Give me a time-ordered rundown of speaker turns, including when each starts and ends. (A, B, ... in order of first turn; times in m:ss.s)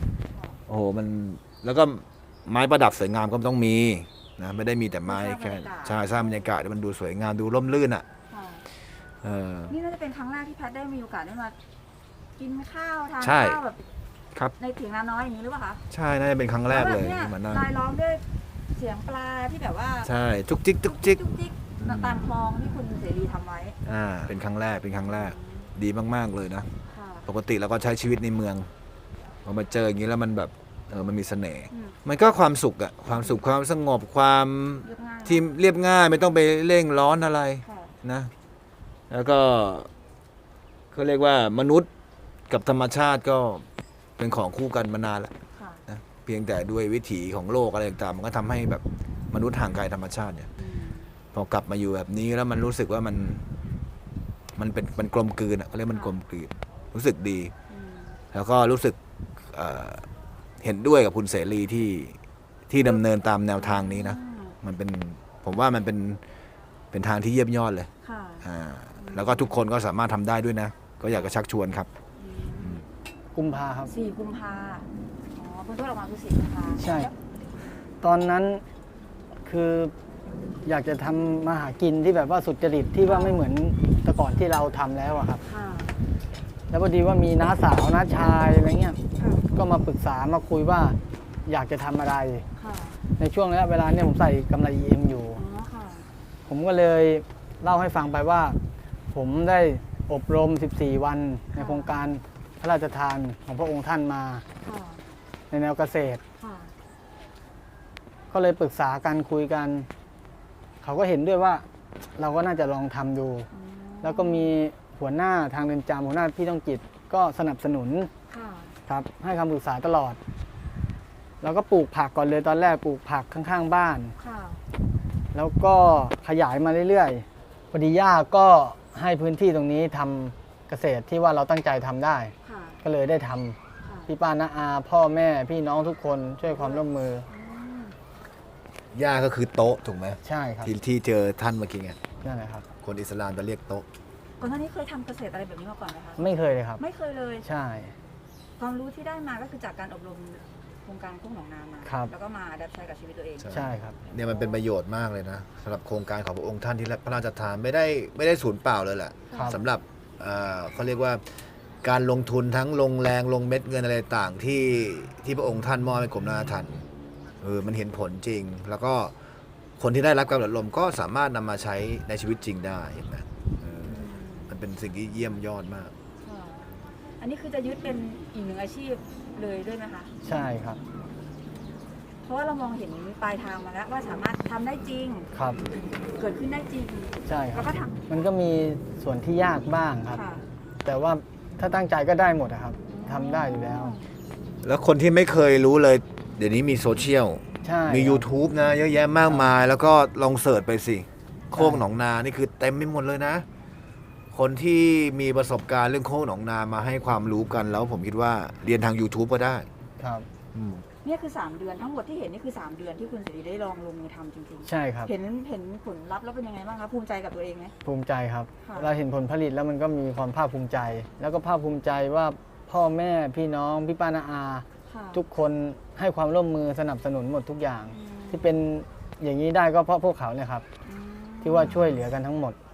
0:00.3-0:00.6 A
0:00.7-0:08.1 B
0:05.0-0:06.5 A
0:08.3-0:08.6 A
0:09.2-0:09.8 B
0:09.7-0:11.6 A
0:12.4-0:13.8 A
0:13.2-0:13.6 B
0:14.6-0:15.8 A
0:15.9-0:17.7 B
0:16.7-0:20.1 A
0:20.0-0:21.2 B
0:20.8-0:23.8 A
0:21.8-0:22.3 B
0:23.8-0:26.7 B
0:25.0-0:25.7 A
0:26.9-0:27.3 A
0:27.3-0:28.7 B
0:29.4-0:38.3 B
0:33.1-0:33.4 A
0:34.8-0:35.5 A
0:37.6-0:37.9 A
0:39.1-0:39.9 B
0:40.9-0:41.9 B
0:42.5-0:43.7 B
0:44.2-0:45.3 B
0:45.5-0:45.8 A
0:45.9-0:50.5 B
0:50.6-0:51.1 A
0:51.3-0:53.5 B
0:54.6-0:57.5 B
0:57.7-0:58.2 A
0:58.3-1:00.1 B
1:00.6-1:02.2 B
1:02.7-1:06.2 B
1:03.6-1:04.6 A
1:06.9-1:07.9 B
1:08.0-1:08.4 A
1:08.4-1:11.9 B
1:09.0-1:09.6 A
1:12.2-1:12.8 A
1:13.4-1:13.9 C
1:13.9-1:17.1 A
1:16.8-1:17.1 C
1:18.0-1:18.6 C
1:19.4-1:19.9 C
1:20.7-1:25.4 C
1:23.1-1:23.4 A
1:25.4-1:26.0 A
1:26.7-1:29.0 C
1:29.2-1:29.5 A
1:29.5-1:32.4 C
1:32.6-1:33.0 A
1:33.2-1:35.4 C
1:35.4-1:36.1 A
1:36.5-1:38.6 C
1:39.1-1:44.4 C
1:41.5-1:42.0 A
1:44.6-1:45.0 A
1:45.5-1:46.2 C
1:46.4-1:46.7 A
1:48.3-1:49.9 C
1:50.8-1:51.7 C
1:52.2-1:53.5 C
1:53.5-1:54.6 A
1:54.0-1:58.1 C
1:58.3-1:58.8 A
1:58.9-2:00.2 C
2:01.4-2:04.2 C
2:04.2-2:04.6 A
2:05.3-2:17.3 C
2:12.4-2:12.8 A
2:13.8-2:14.1 A
2:16.5-2:18.0 A
2:18.9-2:22.0 B
2:20.2-2:20.7 C
2:22.2-2:22.7 C
2:22.8-2:23.9 B
2:24.4-2:26.2 A
2:26.2-2:26.8 C
2:26.8-2:27.5 A
2:27.4-2:27.9 C
2:28.6-2:34.6 A
2:31.8-2:32.1 C
2:33.4-2:41.2 B
2:33.5-2:34.0 C
2:39.3-2:39.6 A
2:39.3-2:39.6 C
2:41.8-2:46.8 B
2:47.4-2:49.1 B
2:49.8-2:55.9 B
2:53.9-2:54.6 A
2:56.2-2:56.7 A
2:57.2-3:00.1 A
3:00.2-3:00.8 C
3:02.2-3:05.3 A
3:05.4-3:05.6 C
3:06.2-3:08.0 A
3:07.3-3:10.2 C
3:10.1-3:10.5 A
3:10.8-3:14.0 C
3:12.9-3:14.0 A
3:14.6-3:23.5 B
3:17.6-3:18.3 C
3:21.6-3:21.8 C
3:24.3-3:29.7 B
3:30.0-3:30.3 C
3:30.5-3:30.8 B
3:31.0-3:37.7 A
3:34.6-3:35.1 C
3:37.8-3:50.6 C
3:38.6-3:38.9 A
3:44.9-3:45.2 A
3:47.9-3:48.6 A
3:50.8-3:51.9 A
3:51.4-3:52.6 C
3:51.6-3:52.0 B